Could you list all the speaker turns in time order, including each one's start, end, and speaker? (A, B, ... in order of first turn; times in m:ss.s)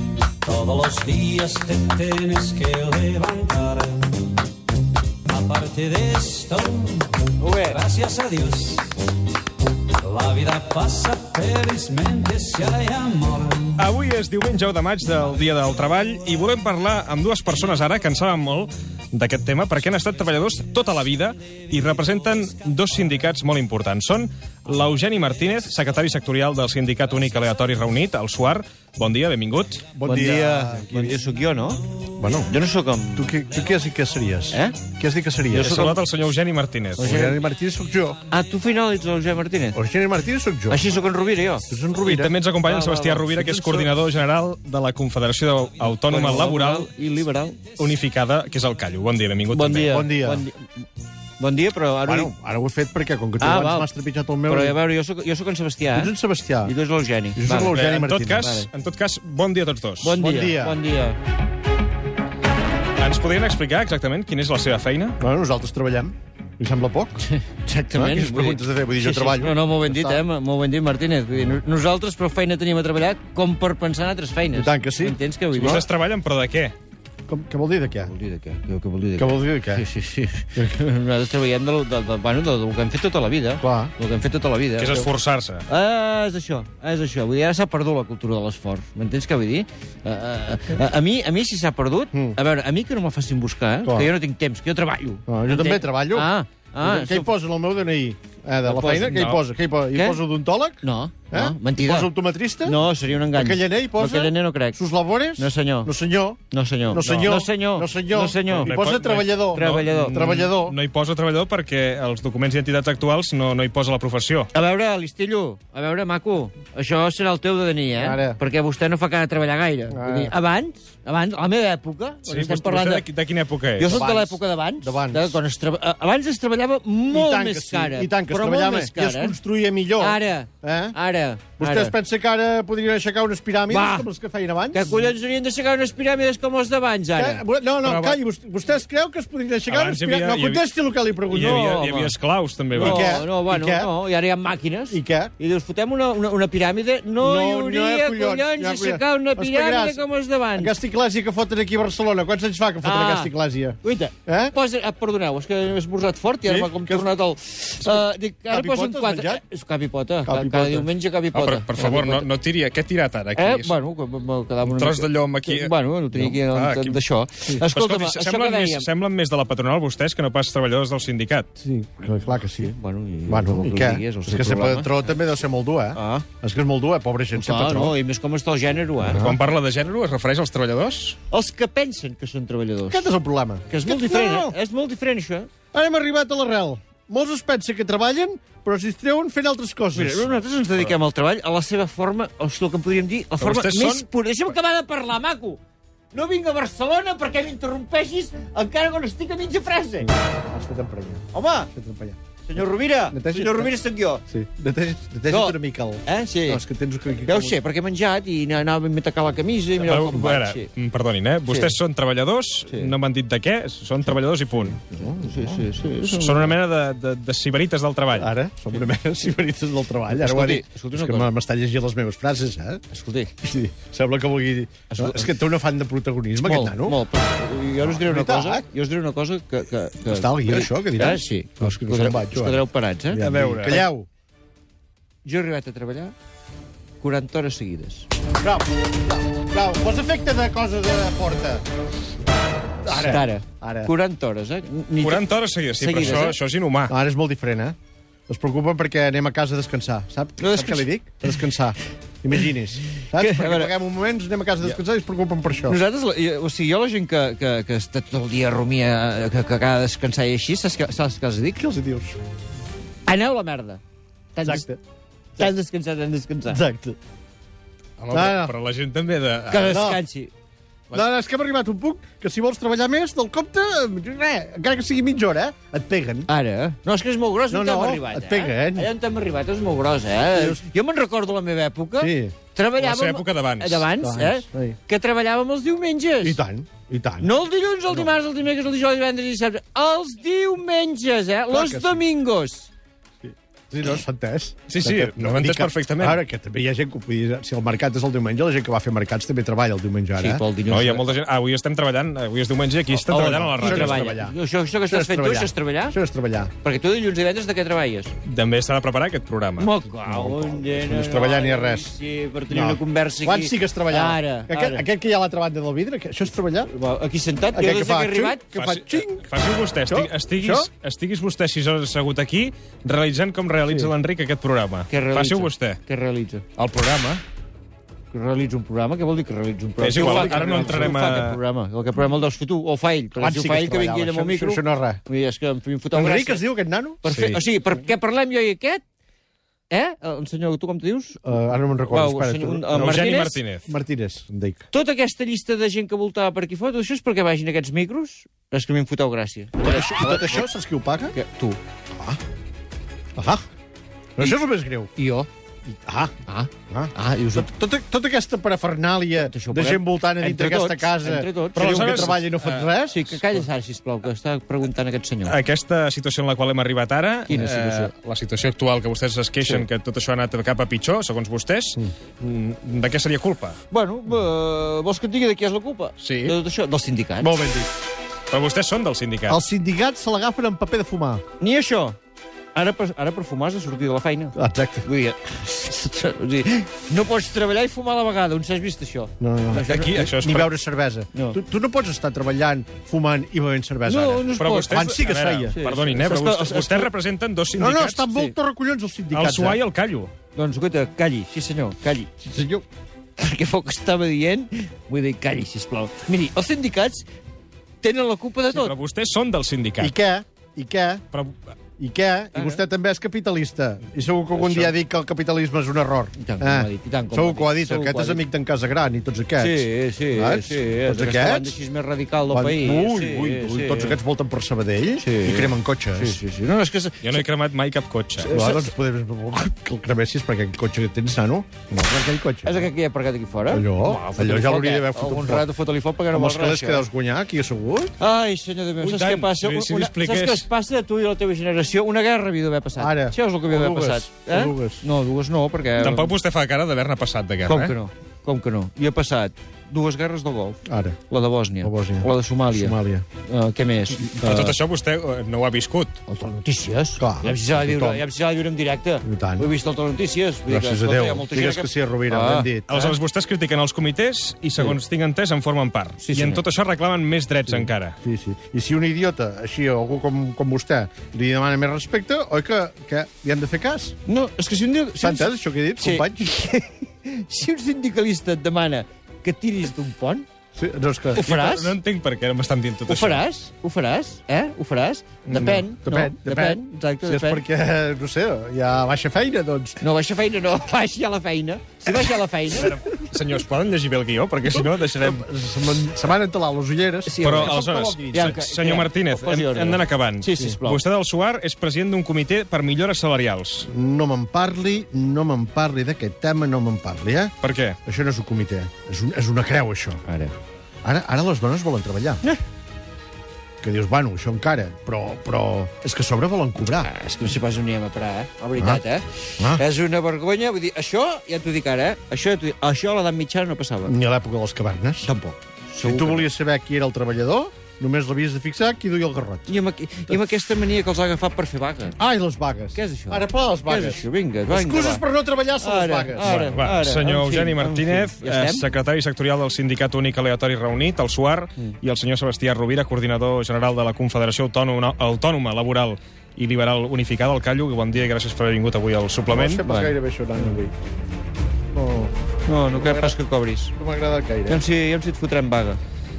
0:00.4-0:04.3 A
0:05.3-0:09.0 A
0:07.4-0:07.9 B
0:09.9-0:13.8 A
0:13.8-0:29.8 C
0:29.9-0:31.2 D
0:30.0-0:33.3 B
0:32.2-0:32.5 D
0:33.2-0:36.0 D
0:34.5-0:34.8 B
0:35.5-0:36.0 B
0:35.6-0:37.1 C
0:37.0-0:37.4 B
0:37.0-0:38.2 D
0:38.3-0:39.8 B
0:39.7-0:40.8 D
0:40.7-0:41.6 B
0:41.7-0:42.3 D
0:42.0-0:46.9 C
0:42.7-0:43.2 B
0:43.3-0:43.9 D
0:46.1-0:47.6 B
0:47.8-0:50.1 C
0:49.5-0:50.8 B
0:49.9-0:50.4 D
0:51.4-0:52.3 B
0:52.1-0:54.8 D
0:53.4-0:53.9 B
0:54.5-0:57.8 B
0:55.9-0:56.7 D
0:57.4-0:58.6 D
0:57.7-1:00.2 C
0:58.4-0:58.7 B
1:00.0-1:01.2 B
1:00.2-1:00.8 D
1:03.0-1:05.2 C
1:05.2-1:07.2 D
1:07.3-1:15.9 B
1:07.9-1:10.2 D
1:14.5-1:15.8 D
1:15.6-1:16.7 C
1:17.3-1:18.1 D
1:18.0-1:25.1 B
1:19.2-1:19.8 D
1:23.6-1:23.9 D
1:24.8-1:25.6 C
1:25.7-1:37.3 B
1:33.8-1:34.1 D
1:35.3-1:42.8 D
1:38.7-1:40.2 B
1:40.8-1:42.1 B
1:42.6-1:44.8 B
1:43.3-1:50.8 D
1:45.4-1:45.9 B
1:46.5-1:48.8 B
1:47.0-1:47.3 C
1:48.5-1:54.5 C
1:49.5-1:50.5 B
1:54.5-2:03.1 B
1:58.0-1:58.4 D
1:59.9-2:00.4 D
2:02.3-2:04.0 C
2:03.8-2:09.4 B
2:03.9-2:05.4 D
2:07.1-2:11.0 D
2:10.0-2:11.9 B
2:11.6-2:15.0 D
2:13.7-2:14.1 B
2:14.7-2:17.4 B
2:17.2-2:21.7 D
2:17.8-2:18.2 C
2:19.7-2:20.6 C
2:21.3-2:23.1 C
2:21.3-2:22.2 B
2:22.8-2:23.9 D
2:22.8-2:30.8 B
2:24.9-2:25.3 D
2:27.2-2:30.0 D
2:30.6-2:34.6 D
2:32.8-2:42.3 B
2:36.4-2:37.2 D
2:37.8-2:39.4 D
2:40.2-2:40.9 D
2:41.3-2:43.8 C
2:43.4-2:48.9 B
2:44.6-2:47.0 C
2:47.7-2:51.5 C
2:51.6-2:52.7 D
2:52.4-2:55.0 B
2:53.3-2:58.0 D
2:56.0-2:56.3 B
2:57.3-2:59.3 B
2:59.0-2:59.4 D
2:59.1-3:01.2 C
3:01.3-3:03.1 B
3:02.9-3:04.6 D
3:03.7-3:05.5 B
3:05.7-3:10.3 D
3:10.0-3:15.6 B
3:13.4-3:14.0 C
3:16.1-3:20.1 B
3:20.0-3:23.7 D
3:21.3-3:21.7 B
3:22.4-3:24.2 B
3:24.3-3:27.6 D
3:25.3-3:26.6 B
3:27.2-3:30.7 B
3:29.8-3:34.8 C
3:31.5-3:31.8 B
3:32.7-3:32.9 B
3:34.8-3:35.7 D
3:35.0-3:36.5 B
3:36.1-3:38.3 C
3:38.2-3:42.8 D
3:40.1-3:41.3 B
3:42.9-3:43.3 B
3:43.4-3:47.0 D
3:44.9-3:45.3 B
3:46.4-3:53.3 B
3:47.8-3:48.7 D
3:50.1-3:54.1 D
3:53.2-3:53.9 C
3:55.2-3:56.1 B
3:57.0-3:58.1 B
3:58.4-4:01.6 D
4:02.8-4:03.9 D
4:02.9-4:06.4 B
4:05.0-4:06.9 C
4:06.0-4:06.3 D
4:06.9-4:07.8 D
4:08.3-4:15.8 D
4:10.4-4:10.9 B
4:13.1-4:13.7 B
4:15.6-4:21.7 B
4:21.6-4:22.2 D
4:23.1-4:23.8 B
4:24.3-4:24.7 B
4:24.4-4:24.8 D
4:25.4-4:26.6 B
4:26.5-4:27.0 D
4:28.0-4:29.8 C
4:28.1-4:28.6 D
4:29.5-4:30.3 B
4:29.6-4:30.0 D
4:30.9-4:36.3 D
4:36.3-4:46.4 B
4:37.5-4:38.9 D
4:40.3-4:40.6 D
4:42.0-4:42.4 D
4:42.8-4:43.9 C
4:44.0-4:44.8 D
4:46.2-4:47.3 D
4:47.2-4:52.7 B
4:51.5-4:52.0 D
4:53.2-5:00.4 D
4:54.7-4:56.2 C
5:00.2-5:01.2 B
5:00.7-5:04.1 C
5:03.1-5:06.0 B
5:03.5-5:04.4 D
5:04.9-5:06.5 D
5:06.6-5:08.1 B
5:08.3-5:09.7 C
5:09.6-5:14.8 B
5:10.1-5:11.9 D
5:12.5-5:16.7 D
5:16.6-5:18.4 B
5:17.5-5:19.2 D
5:18.5-5:25.8 C
5:19.9-5:20.7 D
5:23.7-5:23.9 D
5:24.9-5:26.5 B
5:26.6-5:27.2 C
5:28.1-5:36.4 B
5:29.8-5:31.4 C
5:29.9-5:31.1 D
5:33.2-5:35.0 D
5:35.9-5:37.0 D
5:37.0-5:38.8 B
5:37.1-5:37.4 C
5:39.7-5:43.4 B
5:41.2-5:44.6 D
5:42.7-5:43.7 C
5:44.7-5:50.5 B
5:49.6-5:51.2 D
5:51.1-5:51.6 B
5:53.2-5:53.4 D
5:54.2-5:54.9 D
5:55.0-5:55.3 B
5:55.7-5:56.1 D
5:56.3-5:57.5 B
5:56.7-6:03.3 D
5:59.2-6:02.2 B
6:01.6-6:02.7 C
6:02.9-6:05.4 B
6:05.3-6:13.6 C
6:07.3-6:07.9 B
6:13.7-6:17.4 B
6:16.0-6:16.4 C
6:17.2-6:17.7 D
6:18.3-6:19.4 C
6:19.3-6:21.2 D
6:21.4-6:22.0 B
6:22.5-6:30.1 B
6:24.4-6:24.9 D
6:29.2-6:35.6 D
6:29.5-6:30.5 C
6:31.1-6:31.4 B
6:33.9-6:34.9 B
6:34.3-6:38.1 C
6:35.5-6:36.9 B
6:37.6-6:39.6 D
6:39.1-6:40.1 C
6:40.4-6:42.1 B
6:42.2-6:42.6 D
6:43.2-6:47.1 B
6:47.8-6:48.7 B
6:48.5-6:49.9 C
6:49.8-6:51.0 D
6:51.8-7:01.6 D
6:52.3-6:52.6 B
6:54.4-6:54.7 B
6:56.2-6:58.2 B
6:59.4-7:04.0 B
7:02.3-7:06.2 D
7:02.7-7:03.1 C
7:05.0-7:07.2 B
7:07.0-7:08.4 C
7:08.2-7:12.7 D
7:08.3-7:08.7 B
7:12.4-7:16.9 B
7:13.5-7:15.5 D
7:16.1-7:17.9 D
7:18.0-7:26.2 B
7:18.8-7:20.5 C
7:22.8-7:24.8 D
7:25.8-7:27.8 C
7:27.4-7:34.6 B
7:30.7-7:31.0 D
7:31.6-7:33.0 D
7:34.2-7:36.0 C
7:36.1-7:42.9 B
7:37.0-7:38.0 D
7:39.0-7:39.5 D
7:40.5-7:42.9 D
7:42.7-7:48.0 C
7:46.0-7:46.4 B
7:47.5-7:54.0 D
7:54.0-8:00.3 B
7:55.0-7:56.4 D
8:00.6-8:01.3 D
8:01.2-8:01.8 B
8:01.2-8:03.2 C
8:02.9-8:07.4 B
8:05.3-8:05.6 C
8:05.3-8:09.8 D
8:09.8-8:12.8 B
8:12.5-8:15.3 C
8:14.5-8:18.4 D
8:17.1-8:20.8 B
8:17.2-8:23.7 C
8:23.7-8:27.4 D
8:27.4-8:27.8 C
8:27.9-8:30.0 D
8:30.0-8:30.3 B
8:30.8-8:32.2 D
8:33.6-8:36.9 D
8:36.8-8:44.0 B
8:38.6-8:38.8 D
8:43.9-8:45.1 D
8:45.0-8:46.3 B
8:45.8-8:49.5 D
8:49.5-8:52.0 B
8:52.0-8:56.6 D
8:52.7-8:55.0 B
8:55.6-8:58.7 B
8:56.2-9:09.6 C
9:09.3-9:10.7 D
9:09.6-9:10.0 B
9:11.7-9:12.1 D
9:12.5-9:13.8 B
9:12.7-9:13.2 D
9:13.7-9:14.6 D
9:14.5-9:15.8 B